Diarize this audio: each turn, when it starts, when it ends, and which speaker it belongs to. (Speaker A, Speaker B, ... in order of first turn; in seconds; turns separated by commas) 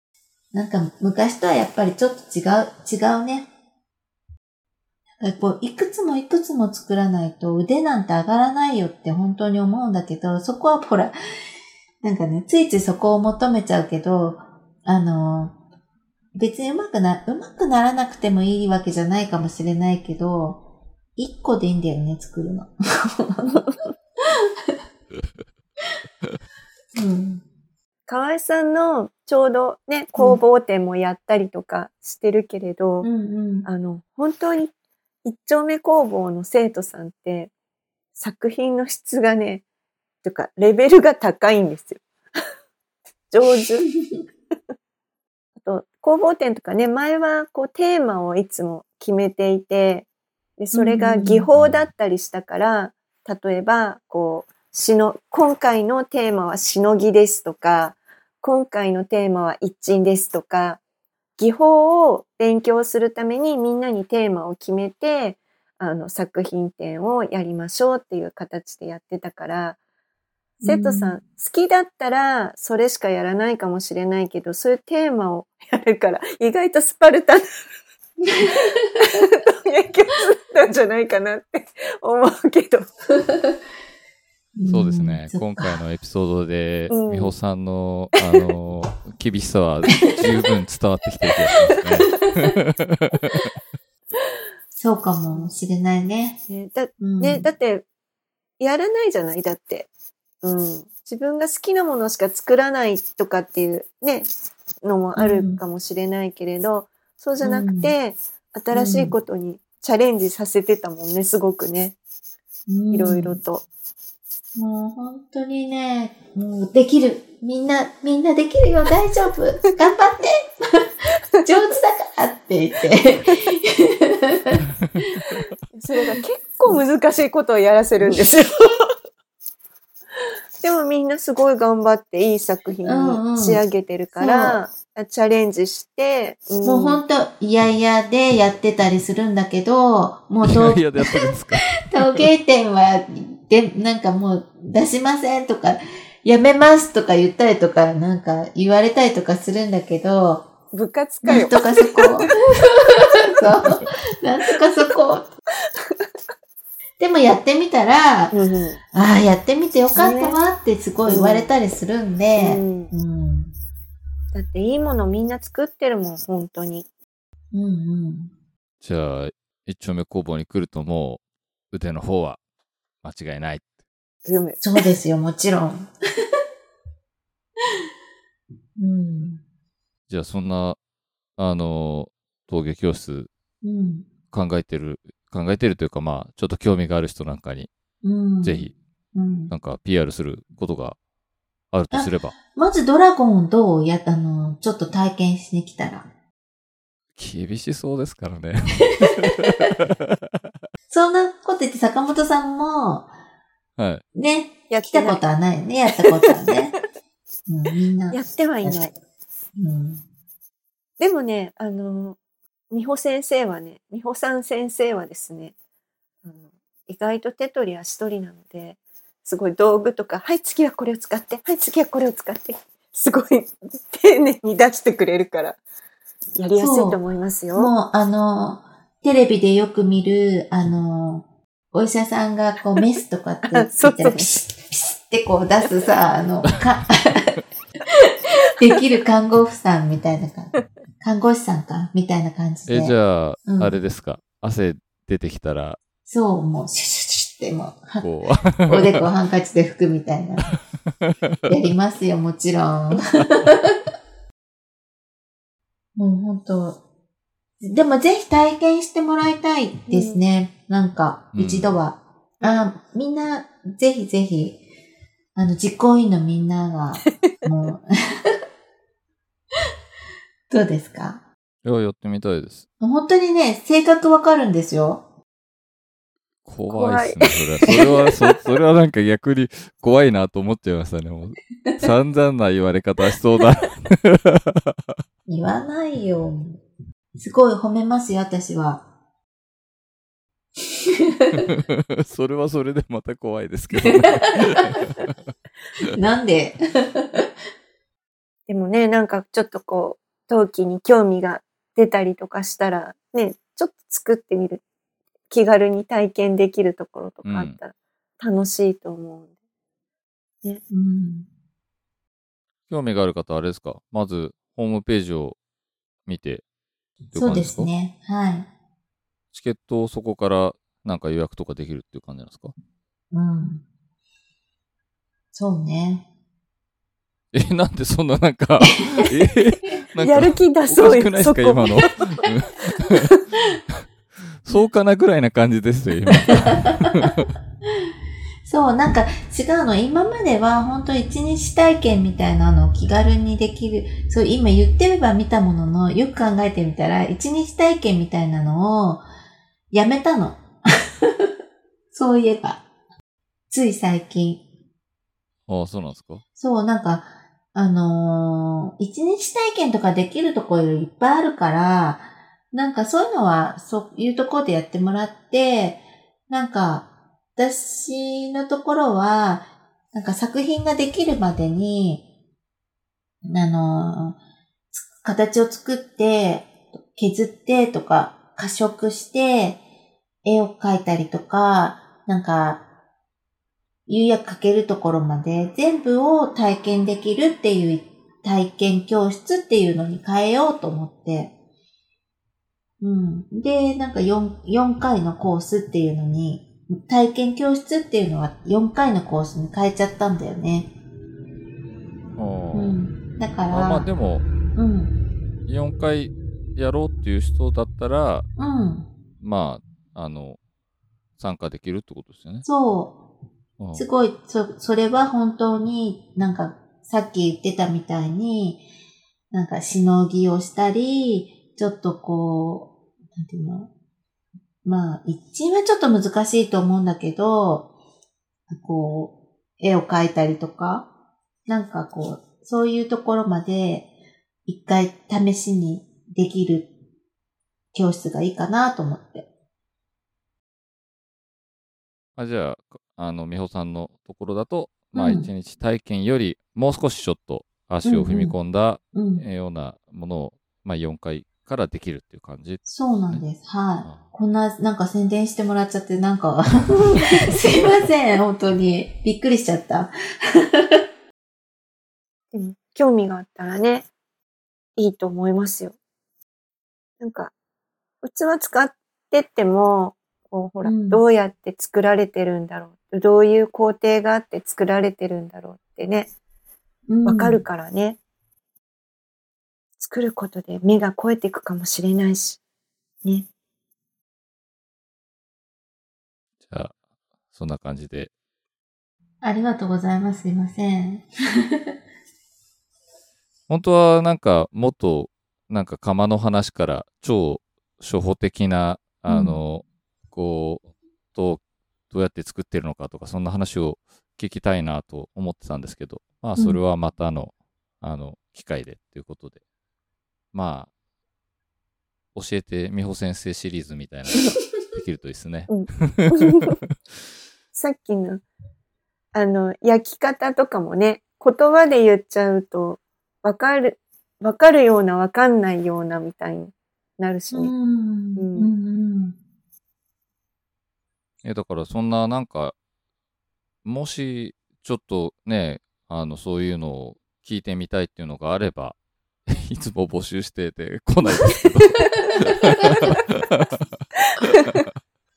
Speaker A: 0.5-3.5, Speaker A: 5.2-11.1, Speaker A: 12.0-15.6, Speaker A: 16.3-20.6, Speaker A: 21.2-23.6, Speaker A: 27.0-27.4, Speaker B: 28.1-33.1, Speaker A: 33.0-33.7, Speaker B: 33.6-34.7, Speaker B: 35.2-37.5, Speaker B: 38.1-39.6, Speaker B: 40.2-42.0, Speaker B: 43.3-43.9, Speaker B: 45.6-50.1, Speaker B: 50.6-60.8, Speaker A: 50.7-51.5, Speaker B: 61.4-69.8, Speaker B: 70.6-77.4, Speaker A: 70.6-71.1, Speaker A: 78.3-78.6, Speaker B: 78.5-82.9, Speaker A: 84.5-85.8, Speaker C: 84.7-93.5, Speaker B: 86.9-87.3, Speaker A: 94.8-96.4, Speaker B: 96.5-97.8, Speaker A: 97.0-97.5, Speaker B: 98.6-99.9, Speaker B: 100.4-104.3, Speaker B: 104.8-112.0, Speaker A: 105.2-105.6, Speaker A: 107.4-107.9, Speaker A: 108.7-109.2, Speaker A: 112.7-113.4, Speaker B: 112.9-113.7, Speaker A: 114.5-120.9, Speaker A: 121.4-124.6, Speaker B: 125.7-128.9, Speaker B: 130.6-137.0, Speaker A: 132.8-133.6, Speaker A: 134.2-134.6, Speaker A: 136.7-141.3, Speaker C: 140.4-142.2, Speaker A: 141.8-150.5, Speaker B: 150.7-153.3, Speaker A: 151.2-152.3, Speaker A: 152.9-155.3, Speaker B: 155.8-156.1, Speaker A: 157.0-158.3, Speaker B: 158.3-158.8, Speaker A: 158.9-163.5, Speaker B: 159.9-160.4, Speaker B: 161.1-161.5, Speaker B: 162.4-162.9, Speaker B: 164.3-166.9, Speaker A: 167.5-168.3, Speaker C: 168.8-172.4, Speaker C: 173.0-173.7, Speaker B: 174.3-174.8, Speaker A: 174.6-175.9, Speaker A: 178.8-179.4, Speaker C: 180.1-180.8, Speaker C: 181.4-183.3, Speaker A: 183.6-184.1, Speaker C: 184.3-187.7, Speaker A: 188.0-189.5, Speaker C: 188.4-188.8, Speaker C: 189.5-191.0, Speaker C: 191.7-192.4, Speaker A: 191.9-196.1, Speaker C: 197.2-200.2, Speaker A: 200.9-203.1, Speaker C: 203.8-204.0, Speaker A: 204.2-206.8, Speaker B: 204.7-205.2, Speaker B: 206.0-206.6, Speaker A: 207.5-208.8, Speaker B: 208.1-208.9, Speaker A: 209.6-210.0, Speaker B: 211.0-212.2, Speaker B: 212.7-215.5, Speaker B: 216.2-225.6, Speaker B: 226.4-227.7, Speaker A: 226.6-227.0, Speaker A: 227.6-237.2, Speaker B: 233.5-234.3, Speaker A: 238.1-243.8, Speaker C: 242.7-245.8, Speaker A: 246.1-250.6, Speaker C: 248.0-249.0, Speaker A: 251.5-253.7, Speaker A: 255.9-256.8, Speaker A: 257.6-264.6, Speaker B: 259.9-260.2, Speaker C: 261.3-261.7, Speaker A: 265.4-268.4, Speaker A: 270.5-271.2, Speaker C: 271.6-272.6, Speaker A: 272.8-275.0, Speaker C: 276.4-284.7, Speaker B: 276.7-278.1, Speaker A: 285.3-286.6, Speaker A: 287.2-288.8, Speaker A: 290.9-291.5, Speaker C: 291.4-295.1, Speaker A: 294.2-294.7, Speaker A: 295.9-297.3, Speaker B: 298.5-304.6, Speaker B: 305.3-309.3, Speaker C: 307.2-307.6, Speaker A: 310.7-311.3, Speaker C: 312.7-315.4, Speaker C: 316.1-316.4, Speaker C: 317.1-317.7, Speaker A: 317.1-318.5, Speaker C: 319.3-322.5, Speaker A: 323.1-323.6, Speaker A: 325.3-326.1, Speaker C: 327.3-333.1, Speaker B: 330.0-332.3, Speaker C: 334.4-337.3, Speaker A: 338.4-349.0, Speaker A: 349.7-351.3, Speaker A: 351.9-352.6, Speaker A: 353.5-354.4, Speaker C: 355.5-356.2, Speaker A: 356.4-372.0, Speaker A: 373.2-374.2, Speaker A: 374.7-379.6, Speaker A: 380.2-382.6, Speaker A: 383.9-391.3, Speaker A: 392.8-400.7, Speaker C: 402.1-402.8, Speaker A: 402.5-403.9, Speaker C: 403.5-404.3, Speaker A: 404.6-404.9, Speaker C: 405.5-408.3, Speaker A: 408.4-408.9, Speaker C: 409.2-410.4, Speaker C: 411.2-412.5, Speaker A: 412.5-413.0, Speaker C: 413.6-413.9, Speaker A: 413.8-418.6, Speaker A: 419.3-423.7, Speaker A: 424.6-427.7, Speaker A: 428.5-430.9, Speaker A: 431.5-433.9, Speaker A: 434.5-436.7, Speaker A: 437.7-439.3, Speaker C: 442.2-453.2, Speaker A: 444.9-445.3, Speaker A: 447.8-448.4, Speaker A: 448.9-449.2, Speaker A: 452.6-460.8, Speaker C: 453.8-454.1, Speaker B: 462.3-463.9, Speaker B: 464.8-465.8, Speaker B: 467.0-467.3, Speaker B: 468.0-476.1, Speaker A: 470.6-471.0, Speaker A: 476.9-477.4, Speaker B: 477.1-478.0, Speaker B: 479.8-482.4, Speaker C: 486.5-486.8, Speaker C: 487.3-488.1, Speaker A: 489.2-491.7, Speaker C: 493.5-509.4, Speaker A: 499.1-499.4, Speaker C: 510.3-510.7, Speaker C: 512.1-516.4, Speaker B: 515.5-516.6, Speaker B: 517.5-518.2, Speaker B: 519.1-527.5, Speaker A: 527.3-529.2, Speaker B: 528.2-528.5, Speaker C: 531.2-532.6, Speaker C: 533.6-538.8, Speaker C: 539.3-544.7